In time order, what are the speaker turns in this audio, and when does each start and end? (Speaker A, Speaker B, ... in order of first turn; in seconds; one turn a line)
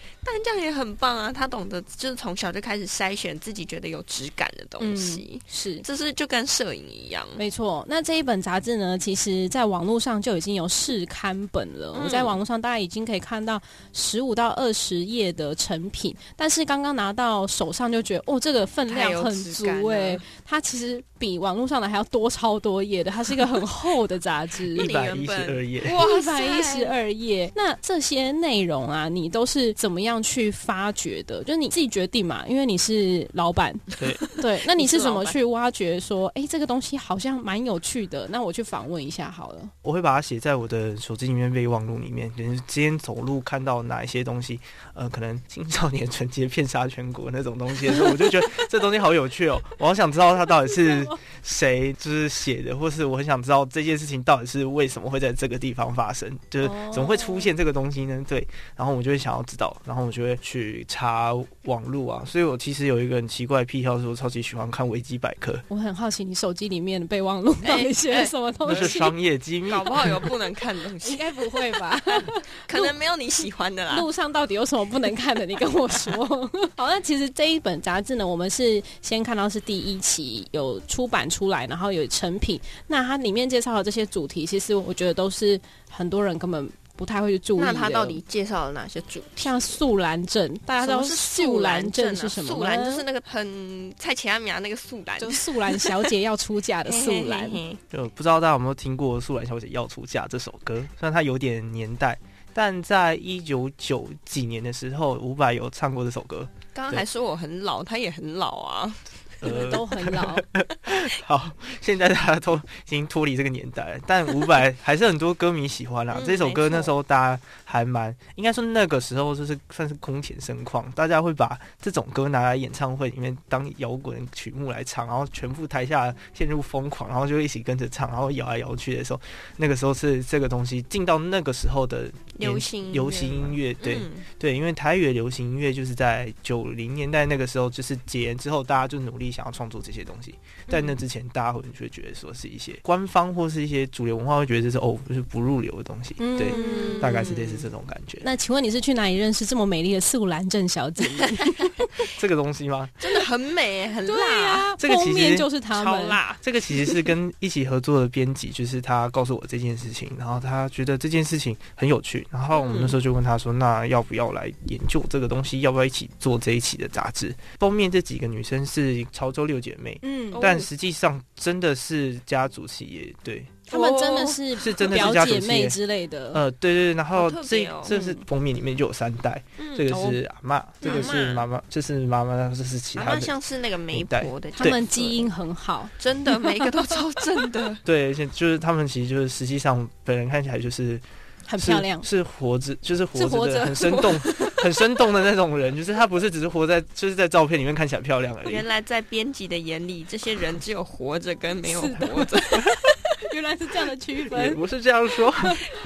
Speaker A: 0.2-7.4
Speaker B: 4.8-5.8
Speaker B: 7.4-24.9
Speaker A: 11.9-12.4
Speaker A: 18.9-20.2
Speaker C: 24.7-26.0
Speaker A: 24.7-27.0
Speaker B: 26.0-39.7
Speaker A: 34.7-35.4
Speaker C: 39.8-65.6
Speaker B: 50.7-51.1
Speaker B: 56.6-57.5
Speaker B: 65.7-69.2
Speaker A: 67.6-68.9
Speaker C: 68.7-70.3
Speaker A: 69.7-74.1
Speaker B: 71.0-72.9
Speaker B: 73.9-88.2
Speaker A: 87.6-89.8
Speaker B: 89.4-93.1
Speaker A: 90.8-96.0
Speaker B: 95.2-97.6
Speaker A: 96.9-97.8
Speaker C: 97.9-107.0
Speaker A: 106.7-109.8
Speaker C: 109.4-148.3
Speaker B: 109.4-110.5
Speaker A: 116.1-116.9
Speaker A: 132.4-134.3
Speaker A: 140.7-141.0
Speaker B: 146.2-147.3
Speaker A: 146.5-147.7
Speaker B: 148.2-151.9
Speaker C: 152.2-153.0
Speaker A: 153.0-154.7
Speaker B: 154.1-156.2
Speaker C: 154.8-155.5
Speaker A: 155.7-156.4
Speaker C: 156.4-173.7
Speaker A: 162.5-163.0
Speaker B: 170.0-170.5
Speaker A: 170.3-170.7
Speaker A: 173.7-175.1
Speaker B: 173.7-176.4
Speaker C: 174.6-175.8
Speaker C: 176.3-183.3
Speaker A: 177.1-178.2
Speaker A: 179.6-180.2
Speaker A: 180.8-181.5
Speaker B: 180.8-181.1
Speaker A: 182.9-185.3
Speaker C: 183.9-184.8
Speaker B: 184.6-186.7
Speaker A: 186.0-187.8
Speaker C: 187.8-191.0
Speaker B: 191.5-192.1
Speaker C: 191.6-198.7
Speaker B: 193.2-194.3
Speaker A: 193.8-194.6
Speaker A: 198.5-202.9
Speaker B: 201.7-202.3
Speaker B: 203.3-204.6
Speaker C: 204.3-205.6
Speaker B: 205.2-205.7